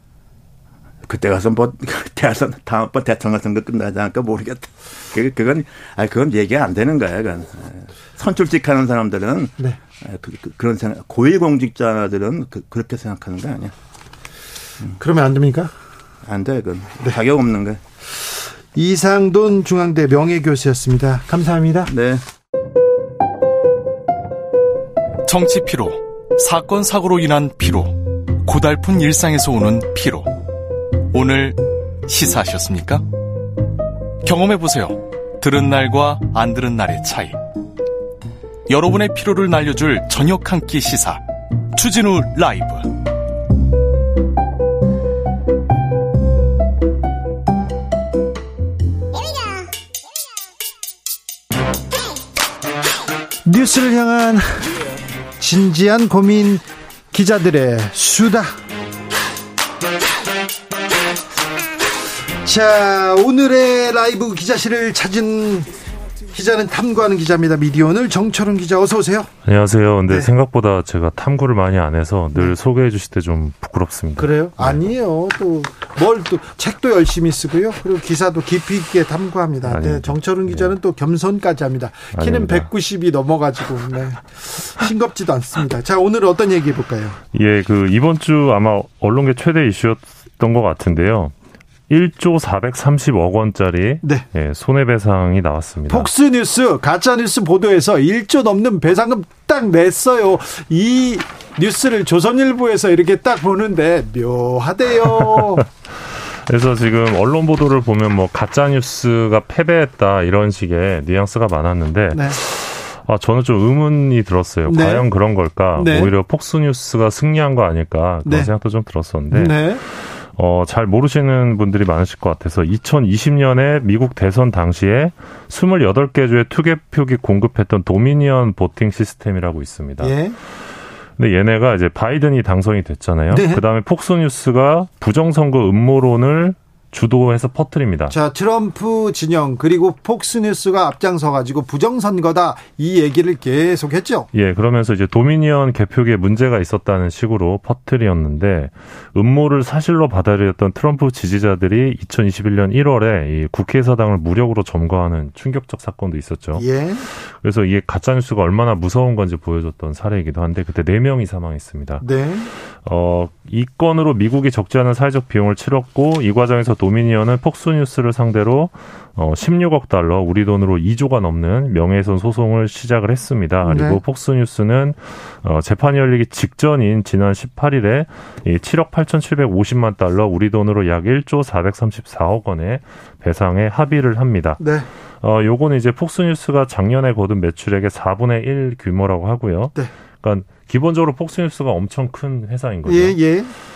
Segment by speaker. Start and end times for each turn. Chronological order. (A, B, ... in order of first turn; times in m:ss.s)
0:01.1-0:13.8 A
0:15.0-0:15.7 B
0:16.2-0:17.8 A
0:18.7-0:21.9 B
0:21.9-0:22.2 A
0:25.2-0:30.3 C
0:31.1-0:33.0 C
0:34.2-0:37.4 C
0:38.7-0:41.2 C
0:41.8-0:42.9 C
0:53.4-0:54.8 B
0:55.4-0:58.6 B
1:02.4-1:05.7 B
1:06.3-1:09.3 B
1:09.4-1:14.9 D
1:14.2-1:27.2 B
1:19.6-1:20.7 D
1:22.1-1:22.7 D
1:27.3-1:31.3 D
1:31.9-1:36.1 D
1:35.9-1:45.6 B
1:45.2-2:10.2 D
1:52.1-1:52.4 B
1:54.7-1:55.1 B
1:55.8-1:56.1 B
1:58.2-1:58.5 B
1:59.3-1:59.8 B
2:10.0-2:10.4 B
2:11.2-2:18.2 D
2:13.3-2:13.6 B
2:18.1-2:24.3 B
2:24.3-2:42.0 D
2:36.6-2:37.1 B
2:42.0-2:42.5 B
2:42.7-3:04.6 D
2:53.6-2:54.0 B
3:04.6-3:04.9 B
3:05.2-3:13.2 D
3:12.9-3:13.5 B